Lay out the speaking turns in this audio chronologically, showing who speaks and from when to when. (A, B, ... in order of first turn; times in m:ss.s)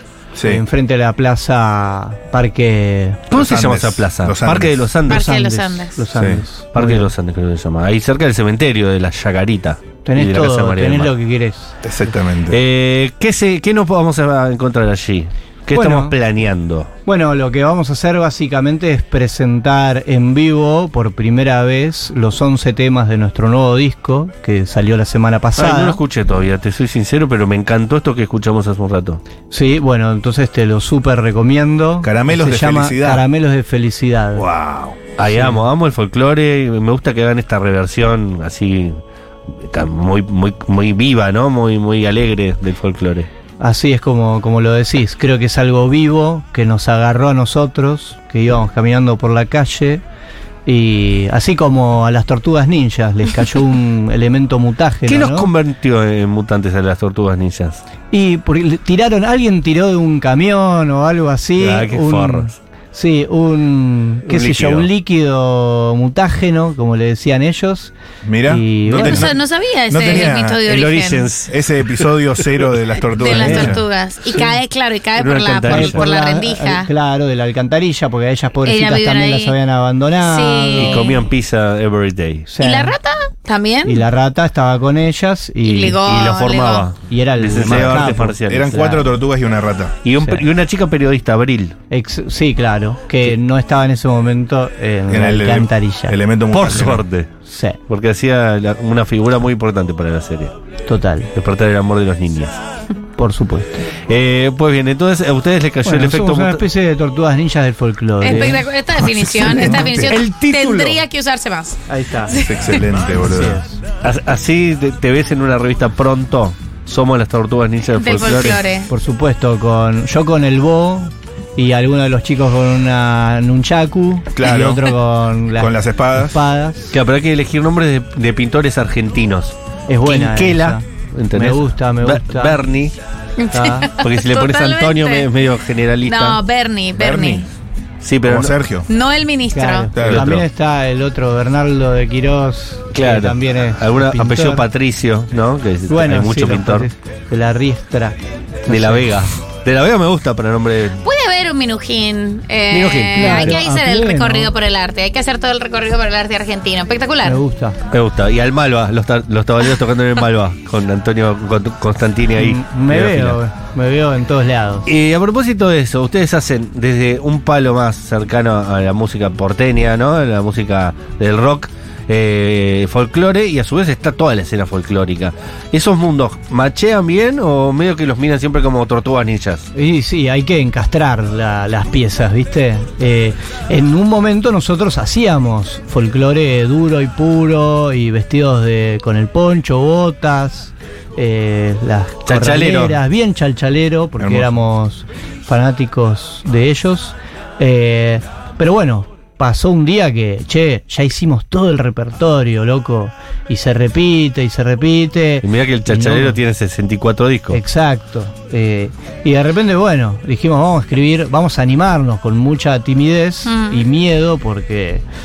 0:00.3-0:00.6 A
0:00.4-0:03.3 B
0:03.3-0:05.3 C
0:03.3-0:05.0 A
0:05.1-0:06.0 D
0:05.1-0:07.1 B
0:06.1-0:06.4 A
0:06.7-0:11.1 C
0:10.0-0:11.7 B
0:11.8-0:12.6 A
0:12.5-0:16.9 C
0:15.7-0:16.2 B
0:17.0-0:26.0 B
0:25.6-0:29.2 C
0:29.5-0:34.4 B
0:32.0-0:33.2 A
0:34.4-0:39.0 C
0:35.2-0:35.6 B
0:39.6-0:43.3 C
0:43.6-0:50.0 B
0:50.6-0:55.5 B
0:55.0-0:57.8 C
0:58.1-1:07.9 B
1:01.6-1:02.6 C
1:04.3-1:04.8 A
1:04.4-1:04.8 C
1:08.2-1:10.6 A
1:08.4-1:09.3 B
1:08.9-1:11.3 D
1:10.6-1:11.5 C
1:11.5-1:13.8 A
1:13.2-1:16.9 D
1:13.2-1:14.5 B
1:15.2-1:16.0 C
1:15.6-1:21.1 B
1:18.6-1:19.6 D
1:20.2-1:21.3 D
1:20.8-1:22.5 C
1:22.5-1:23.0 B
1:22.6-1:24.0 D
1:23.8-1:26.0 B
1:25.6-1:26.9 D
1:26.0-1:28.8 C
1:27.1-1:29.1 B
1:27.6-1:30.0 A
1:30.0-1:31.8 C
1:30.2-1:30.4 B
1:31.9-1:36.2 B
1:35.1-1:37.0 A
1:36.5-1:37.3 C
1:37.4-1:37.8 B
1:37.9-1:40.5 C
1:40.8-1:41.3 B
1:41.3-1:42.6 C
1:43.2-1:43.8 B
1:44.1-1:46.6 C
1:45.8-1:48.7 B
1:48.2-1:52.9 D
1:49.2-1:49.5 A
1:49.4-1:50.2 B
1:49.9-1:51.0 C
1:51.9-1:52.4 B
1:52.3-1:53.6 A
1:53.2-1:53.8 B
1:54.0-1:58.6 C
1:57.9-1:58.9 D
1:58.9-2:07.0 B
2:04.3-2:04.9 A
2:05.6-2:06.4 A
2:06.9-2:12.9 C
2:09.9-2:12.6 B
2:13.4-2:15.3 D
2:13.5-2:13.9 B
2:14.0-2:16.4 C
2:16.0-2:17.5 D
2:17.0-2:17.4 A
2:18.0-2:18.6 C
2:18.2-2:18.9 A
2:18.9-2:19.9 D
2:19.5-2:24.6 B
2:19.9-2:20.3 A
2:20.0-2:20.4 C
2:22.9-2:26.9 C
2:25.9-2:29.2 B
2:28.7-2:31.0 C
2:31.0-2:37.4 D
2:32.7-2:33.6 C
2:33.1-2:34.5 B
2:37.2-2:37.8 B
2:37.9-2:43.4 C
2:42.4-2:44.9 B
2:44.9-2:59.7 C
2:59.7-3:26.4 B
3:12.2-3:13.0 C
3:14.2-3:14.5 A
3:25.4-3:27.6 C
3:27.5-3:35.0 B
3:33.4-3:33.8 D